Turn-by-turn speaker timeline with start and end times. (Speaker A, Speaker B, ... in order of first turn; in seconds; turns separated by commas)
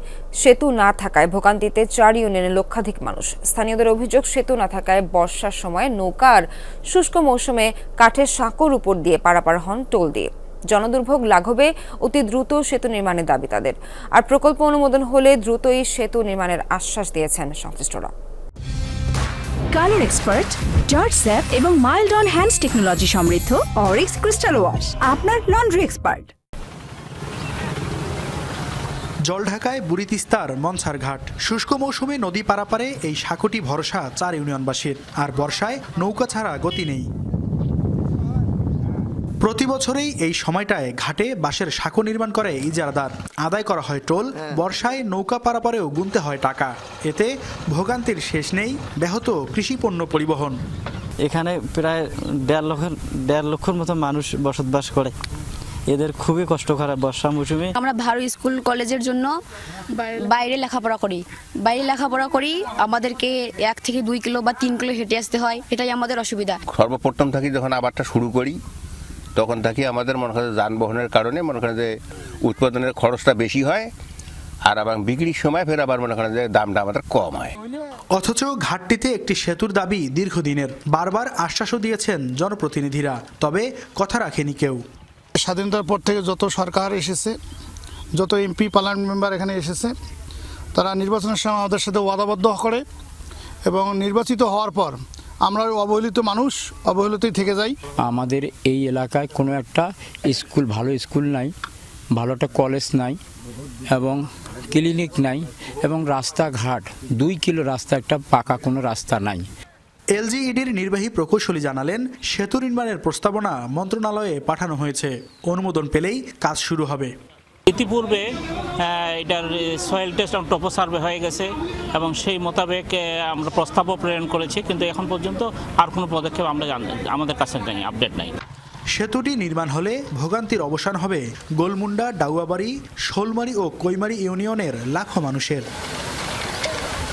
Speaker A: 0.4-18.1, Speaker B: 19.7-26.3, Speaker C: 29.2-37.0, Speaker C: 39.4-50.6, Speaker D: 51.2-55.1, Speaker D: 55.9-57.7, Speaker E: 57.8-59.3, Speaker E: 60.0-66.6, Speaker F: 66.7-68.6, Speaker F: 69.3-71.9, Speaker F: 72.4-73.9, Speaker F: 74.6-77.5, Speaker C: 78.1-84.8, Speaker G: 85.3-87.3, Speaker G: 88.1-89.9, Speaker G: 90.7-92.8, Speaker G: 93.7-97.8, Speaker H: 98.0-101.5, Speaker H: 102.1-103.2, Speaker H: 103.9-109.5, Speaker C: 110.1-117.1, Speaker I: 117.7-118.2, Speaker I: 118.8-128.3, Speaker C: 128.9-135.7